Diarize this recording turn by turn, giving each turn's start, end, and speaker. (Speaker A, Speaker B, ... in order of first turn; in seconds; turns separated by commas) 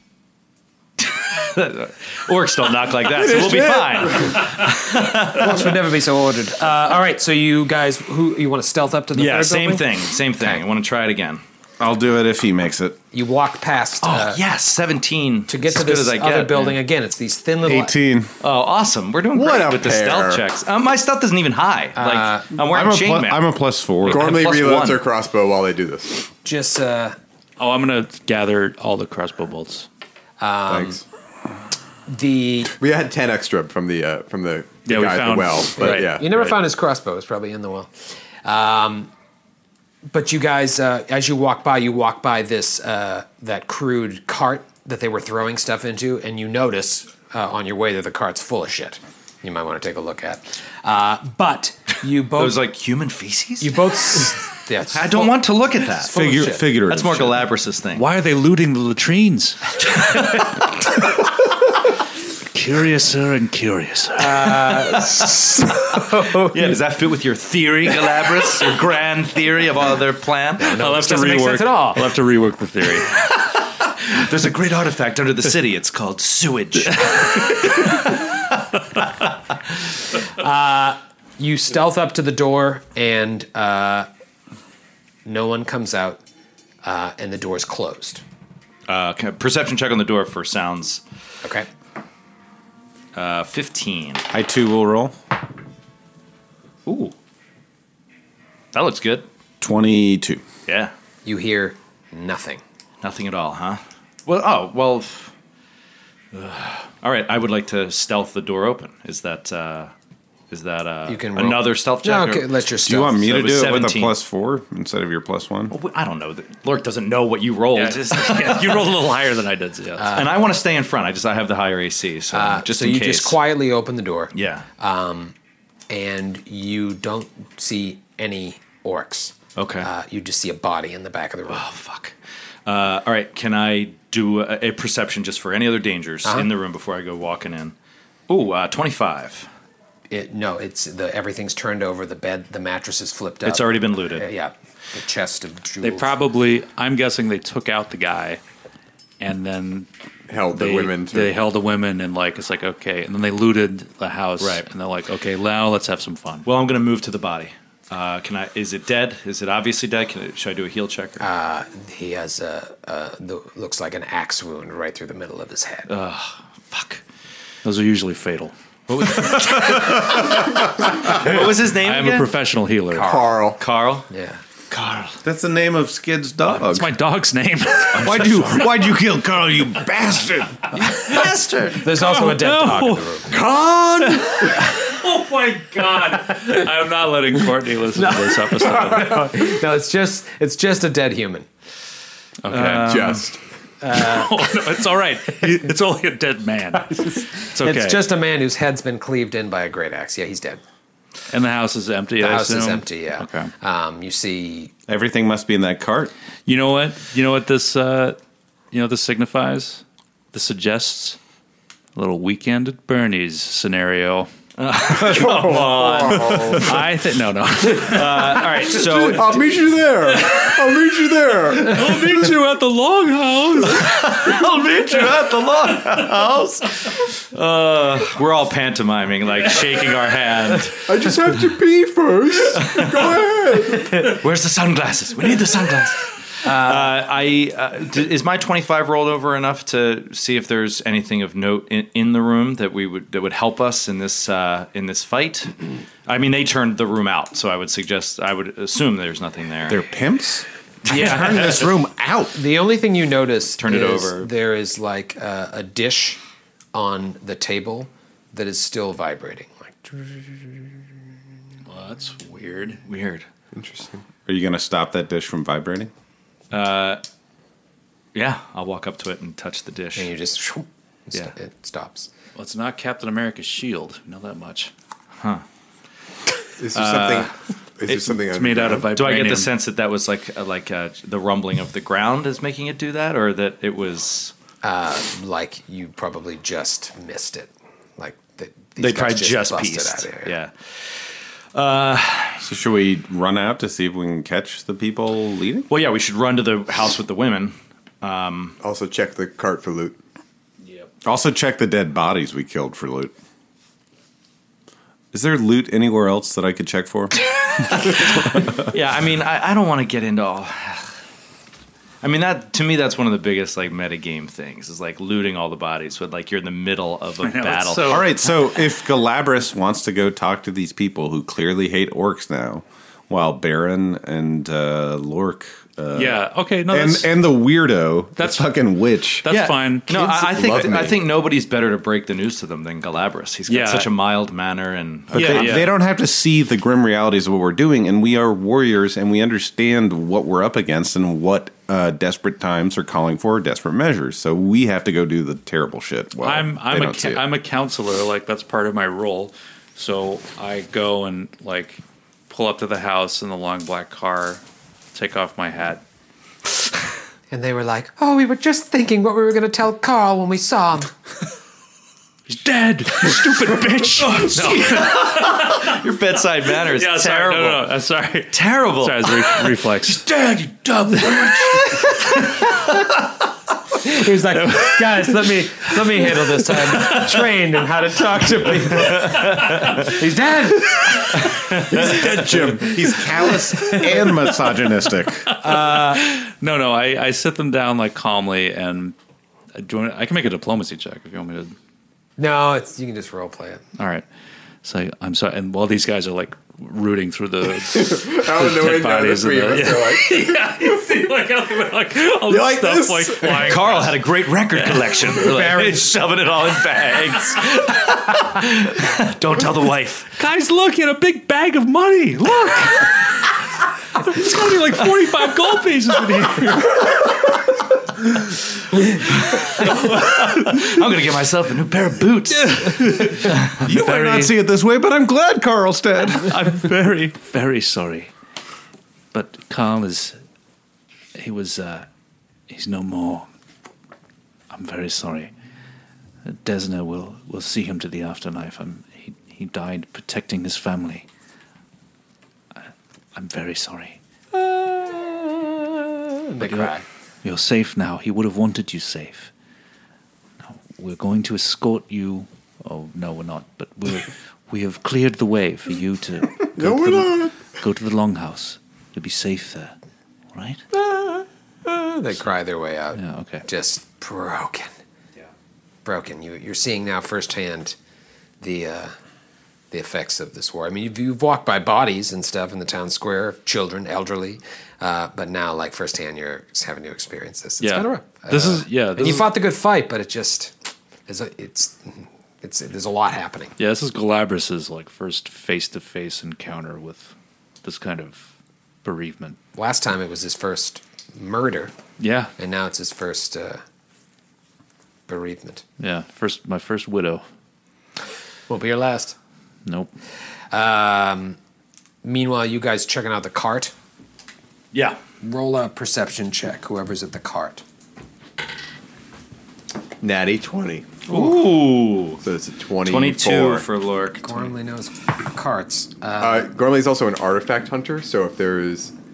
Speaker A: 1.0-5.8, Speaker B: 3.4-4.4, Speaker C: 5.3-10.6, Speaker A: 9.2-11.4, Speaker D: 11.8-13.0, Speaker C: 13.1-14.4, Speaker A: 14.0-16.8, Speaker C: 15.5-17.9, Speaker D: 17.6-18.3, Speaker A: 18.4-23.4, Speaker B: 19.3-20.4, Speaker C: 22.0-22.5, Speaker D: 22.6-24.4, Speaker A: 24.0-25.0, Speaker B: 24.1-26.2, Speaker C: 26.4-27.2, Speaker E: 27.6-29.9, Speaker C: 30.4-31.0, Speaker B: 30.7-31.0, Speaker C: 32.1-32.7, Speaker B: 32.8-36.2, Speaker E: 34.9-36.6, Speaker C: 35.8-37.9, Speaker C: 38.5-39.1, Speaker C: 40.1-52.6, Speaker A: 52.4-54.2, Speaker C: 53.6-56.7, Speaker A: 54.9-56.1, Speaker D: 56.1-57.5, Speaker A: 56.9-58.1, Speaker E: 58.0-60.4, Speaker E: 62.5-64.5, Speaker C: 64.2-66.8, Speaker A: 64.5-65.5, Speaker A: 66.5-71.0, Speaker C: 70.6-72.1, Speaker E: 70.7-73.1, Speaker A: 73.0-79.3, Speaker C: 80.4-84.1, Speaker C: 85.2-86.2, Speaker C: 86.8-88.2, Speaker A: 88.9-91.0, Speaker C: 91.4-91.7, Speaker A: 93.1-94.2, Speaker D: 94.3-95.2, Speaker A: 96.9-97.1, Speaker A: 98.7-99.3, Speaker D: 99.6-100.4, Speaker A: 100.7-100.9, Speaker C: 101.2-102.6, Speaker A: 103.0-105.3, Speaker A: 106.3-109.9, Speaker A: 110.5-112.5, Speaker C: 111.1-113.3, Speaker D: 112.8-115.8, Speaker A: 113.2-114.2, Speaker A: 115.7-119.1, Speaker E: 117.7-120.1, Speaker C: 120.0-120.3, Speaker A: 120.1-123.4, Speaker C: 122.3-125.3, Speaker A: 124.3-124.7, Speaker C: 125.9-131.7, Speaker A: 129.6-129.9, Speaker A: 131.5-132.1, Speaker A: 132.7-137.7, Speaker A: 138.3-139.5, Speaker C: 140.1-146.2, Speaker A: 143.4-144.3, Speaker E: 145.8-148.4, Speaker E: 149.2-149.9, Speaker B: 150.3-151.4, Speaker E: 150.5-156.5, Speaker A: 154.4-154.7, Speaker A: 156.5-161.2, Speaker C: 161.2-165.9, Speaker A: 165.9-167.0, Speaker E: 167.6-169.3, Speaker A: 168.9-172.3, Speaker E: 170.5-173.2, Speaker C: 172.9-173.4, Speaker B: 173.0-173.6, Speaker A: 173.6-174.1, Speaker C: 174.1-174.4, Speaker A: 174.7-175.2, Speaker D: 175.2-177.0, Speaker E: 176.5-178.7, Speaker A: 177.9-178.8, Speaker D: 178.0-180.6, Speaker A: 180.7-182.0, Speaker C: 181.8-183.3, Speaker E: 181.9-183.4, Speaker D: 183.4-184.2, Speaker E: 184.0-189.3, Speaker C: 186.3-186.6, Speaker C: 187.9-191.5, Speaker E: 192.4-193.2, Speaker A: 192.5-193.3, Speaker B: 192.8-193.4, Speaker C: 193.8-194.6, Speaker E: 193.9-198.0, Speaker C: 196.8-200.6, Speaker E: 201.3-203.5, Speaker C: 202.2-204.7, Speaker D: 204.9-206.1, Speaker E: 206.5-208.2, Speaker E: 208.7-211.2, Speaker E: 211.9-214.3, Speaker A: 214.6-216.9, Speaker B: 214.8-216.8, Speaker E: 216.2-218.9, Speaker A: 217.7-219.3, Speaker B: 219.0-222.4, Speaker E: 220.0-220.9, Speaker E: 221.4-224.5, Speaker A: 223.7-230.9, Speaker B: 230.9-234.1, Speaker A: 232.6-233.2, Speaker C: 233.8-234.1, Speaker A: 234.2-249.8, Speaker C: 236.4-237.0, Speaker D: 249.7-252.4, Speaker C: 250.9-251.6, Speaker A: 251.0-251.6, Speaker C: 252.3-256.2, Speaker A: 253.6-254.3, Speaker C: 256.7-260.7, Speaker E: 261.7-262.8, Speaker A: 262.9-263.3, Speaker B: 263.5-264.0, Speaker D: 264.3-265.9, Speaker A: 266.5-267.0, Speaker A: 268.1-270.1, Speaker C: 270.0-272.1, Speaker E: 272.4-274.7, Speaker A: 275.2-275.4, Speaker B: 276.6-278.9, Speaker A: 276.7-277.3, Speaker E: 277.9-279.5, Speaker A: 278.9-284.3, Speaker C: 284.6-290.3, Speaker A: 288.8-291.0, Speaker A: 291.5-292.4, Speaker D: 292.4-295.7, Speaker A: 295.7-298.6, Speaker B: 298.6-300.0, Speaker D: 301.0-303.1, Speaker D: 305.1-307.2, Speaker A: 307.4-310.9, Speaker D: 307.9-308.5, Speaker A: 312.0-318.1, Speaker E: 317.2-318.5, Speaker D: 317.9-329.3, Speaker E: 325.9-327.1, Speaker E: 328.2-328.5, Speaker E: 329.2-330.6, Speaker A: 329.3-335.7, Speaker B: 330.0-331.0, Speaker E: 333.5-333.9, Speaker E: 335.1-335.7, Speaker D: 335.1-347.2, Speaker E: 346.2-354.4, Speaker E: 354.9-355.8, Speaker C: 357.3-360.9, Speaker E: 362.3-365.8, Speaker A: 364.0-367.7, Speaker E: 366.6-372.1, Speaker A: 368.3-369.5, Speaker A: 370.9-371.9, Speaker C: 371.7-372.8, Speaker C: 373.8-381.0, Speaker E: 373.8-377.1, Speaker A: 378.8-379.8, Speaker E: 379.4-379.9, Speaker D: 381.7-385.3, Speaker A: 381.7-382.2, Speaker E: 381.9-382.4, Speaker C: 383.5-384.1, Speaker E: 385.3-389.0, Speaker C: 385.4-386.0, Speaker E: 389.6-391.5, Speaker C: 392.2-393.6, Speaker E: 393.8-394.1, Speaker E: 394.6-404.0, Speaker B: 397.7-400.9, Speaker B: 402.3-403.6, Speaker A: 403.2-410.1, Speaker E: 404.5-405.9, Speaker C: 405.3-405.9, Speaker E: 406.5-407.4, Speaker E: 410.1-413.3, Speaker E: 414.0-417.1, Speaker A: 419.1-423.6, Speaker E: 419.2-420.8, Speaker E: 422.3-424.3, Speaker D: 423.6-426.4, Speaker E: 426.3-428.1, Speaker E: 429.1-430.2, Speaker E: 431.2-431.9, Speaker E: 432.5-433.3, Speaker E: 434.5-435.3, Speaker E: 436.2-441.1, Speaker E: 442.6-444.0, Speaker C: 444.3-446.9, Speaker E: 446.4-449.3, Speaker E: 450.4-459.8, Speaker B: 456.6-457.5, Speaker E: 460.3-460.6, Speaker C: 460.7-464.7, Speaker E: 462.9-463.4, Speaker C: 465.9-467.8, Speaker C: 468.4-468.9, Speaker C: 469.7-480.5, Speaker E: 477.6-479.3, Speaker C: 481.1-483.5, Speaker E: 483.6-487.1, Speaker E: 487.6-488.3, Speaker E: 488.8-489.4, Speaker C: 489.6-491.7, Speaker E: 492.0-492.3, Speaker C: 492.4-493.6, Speaker C: 495.1-495.6, Speaker E: 495.8-497.2, Speaker C: 498.5-499.1, Speaker E: 499.7-499.9, Speaker C: 500.5-501.4, Speaker C: 502.0-503.7, Speaker A: 504.7-505.0, Speaker C: 505.2-507.6, Speaker B: 510.0-511.1, Speaker A: 511.1-512.2, Speaker B: 512.2-513.6, Speaker A: 512.9-514.5, Speaker C: 514.2-516.5, Speaker B: 516.2-518.9